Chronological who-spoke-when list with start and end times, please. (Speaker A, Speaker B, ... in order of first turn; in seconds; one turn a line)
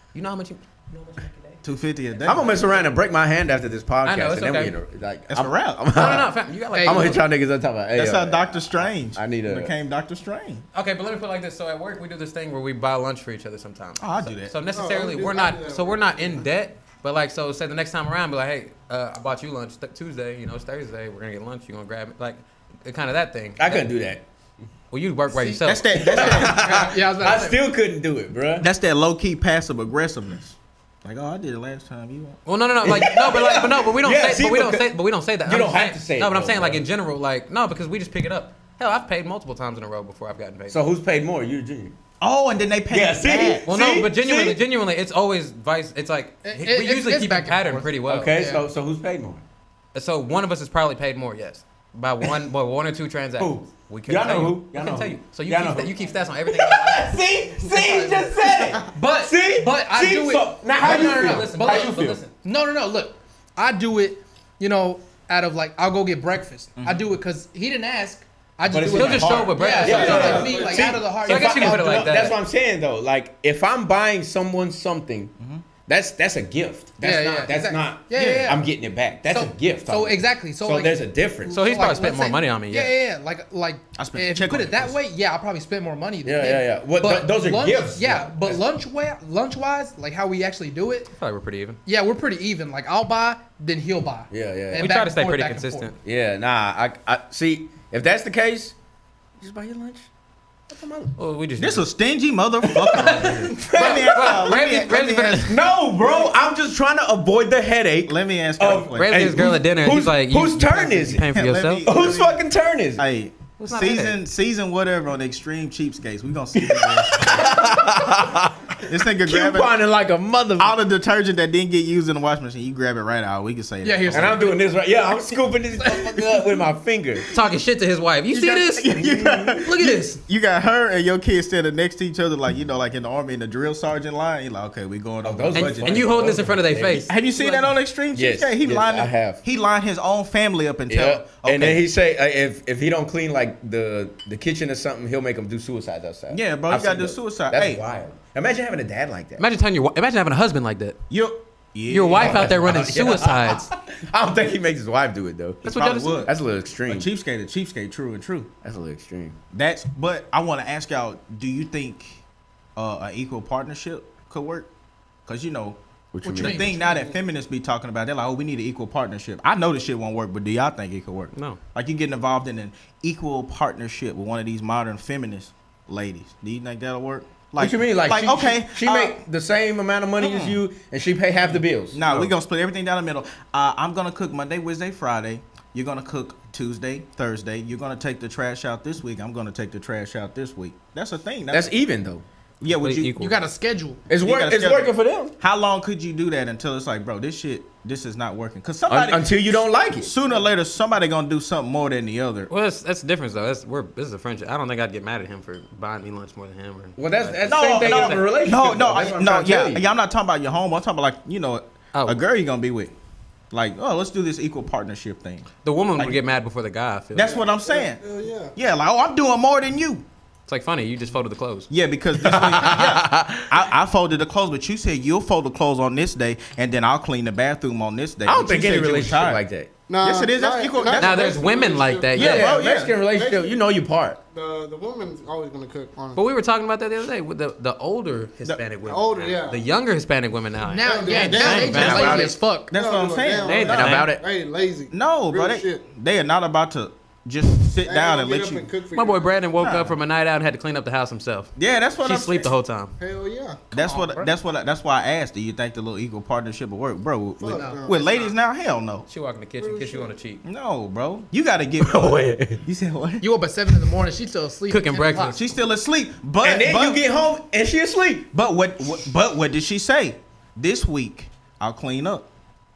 Speaker A: 0.1-1.6
Speaker B: 1.6-2.7
Speaker A: 2.1-2.9
Speaker C: 2.2-9.7
Speaker A: 4.0-4.7
Speaker B: 5.3-6.0
Speaker A: 5.9-7.2
Speaker D: 6.7-7.2
Speaker B: 7.9-10.6
Speaker A: 10.7-23.9
Speaker B: 14.0-14.5
Speaker E: 14.7-16.5
Speaker C: 23.6-24.2
Speaker A: 24.9-26.2
Speaker D: 25.3-27.6
Speaker B: 25.6-26.9
Speaker C: 25.9-28.7
Speaker B: 28.6-32.4
Speaker A: 32.5-40.8
Speaker C: 32.8-34.9
Speaker C: 35.4-36.8
Speaker C: 40.7-41.9
Speaker B: 42.2-43.7
Speaker C: 42.9-44.6
Speaker A: 43.6-48.3
Speaker D: 46.4-48.6
Speaker C: 48.1-49.4
Speaker A: 49.9-57.2
Speaker C: 53.4-62.2
Speaker D: 57.7-58.2
Speaker D: 58.9-72.2
Speaker A: 60.8-62.3
Speaker B: 66.8-67.0
Speaker C: 68.7-75.3
Speaker A: 68.9-72.4
Speaker E: 69.8-71.0
Speaker B: 69.8-70.3
Speaker B: 75.4-75.6
Speaker C: 75.8-81.9
Speaker D: 77.0-78.7
Speaker B: 78.1-78.6
Speaker D: 79.2-91.1
Speaker A: 81.5-82.9
Speaker B: 84.0-85.0
Speaker C: 86.2-88.6
Speaker A: 91.2-91.8
Speaker D: 91.8-95.9
Speaker C: 94.3-94.9
Speaker A: 94.8-95.9
Speaker C: 96.0-98.7
Speaker C: 99.4-100.1
Speaker C: 100.7-101.2
Speaker A: 101.2-101.8
Speaker B: 101.6-105.6
Speaker C: 102.8-104.6
Speaker A: 103.0-105.6
Speaker C: 105.4-111.3
Speaker B: 108.1-109.4
Speaker A: 108.9-111.9
Speaker B: 111.3-112.4
Speaker C: 111.8-113.0
Speaker B: 113.0-117.6
Speaker A: 113.6-114.2
Speaker C: 116.5-120.7
Speaker B: 118.8-119.8
Speaker B: 120.6-124.5
Speaker D: 123.8-124.6
Speaker C: 124.1-127.2
Speaker D: 125.8-126.4
Speaker A: 127.3-130.2
Speaker B: 128.3-136.4
Speaker C: 135.2-137.1
Speaker A: 135.5-137.6
Speaker B: 137.1-141.8
Speaker C: 138.1-139.4
Speaker C: 140.9-149.4
Speaker B: 146.3-147.8
Speaker A: 149.4-151.0
Speaker B: 151.1-152.8
Speaker A: 151.9-153.7
Speaker C: 152.1-155.6
Speaker A: 155.6-156.2
Speaker B: 155.6-156.3
Speaker C: 156.2-157.1
Speaker B: 156.8-158.5
Speaker C: 158.6-159.4
Speaker B: 159.5-162.2
Speaker B: 162.8-164.7
Speaker B: 165.2-165.8
Speaker C: 166.1-166.7
Speaker D: 166.2-167.0
Speaker B: 166.3-179.2
Speaker E: 166.8-167.2
Speaker A: 171.3-171.6
Speaker C: 177.6-182.3
Speaker B: 180.2-180.6
Speaker B: 181.9-191.7
Speaker C: 191.5-192.2
Speaker B: 192.6-193.2
Speaker A: 192.7-193.3
Speaker D: 193.2-194.0
Speaker C: 194.1-195.3
Speaker B: 194.2-202.5
Speaker C: 198.9-200.1
Speaker A: 202.5-208.2
Speaker C: 207.0-209.8
Speaker B: 207.4-212.9
Speaker A: 211.9-212.2
Speaker B: 213.5-216.2
Speaker A: 215.6-217.3
Speaker B: 217.1-218.0
Speaker E: 217.2-218.5
Speaker B: 218.5-220.0
Speaker A: 220.5-221.7
Speaker B: 221.7-229.4
Speaker C: 222.2-223.6
Speaker C: 228.2-229.7
Speaker E: 229.9-233.6
Speaker B: 230.0-231.4
Speaker A: 230.9-232.5
Speaker B: 232.1-232.9
Speaker C: 232.1-234.2
Speaker E: 234.3-236.2
Speaker A: 236.1-242.3
Speaker E: 238.8-239.6
Speaker D: 240.6-242.7
Speaker E: 240.8-245.8
Speaker C: 241.7-242.4
Speaker B: 242.7-244.0
Speaker A: 243.4-244.1
Speaker C: 243.7-244.2
Speaker B: 244.9-248.7
Speaker E: 247.8-249.4
Speaker A: 248.9-253.0
Speaker B: 249.6-250.0
Speaker B: 251.6-252.5
Speaker E: 253.0-253.7
Speaker B: 253.7-259.1
Speaker D: 253.8-254.3
Speaker E: 257.4-258.3
Speaker D: 257.5-257.8
Speaker A: 259.1-260.4
Speaker E: 259.6-260.1
Speaker B: 260.4-263.2
Speaker C: 261.8-262.6
Speaker D: 263.2-265.4
Speaker A: 264.7-265.4
Speaker B: 265.3-267.0
Speaker C: 266.4-268.3
Speaker B: 268.3-272.3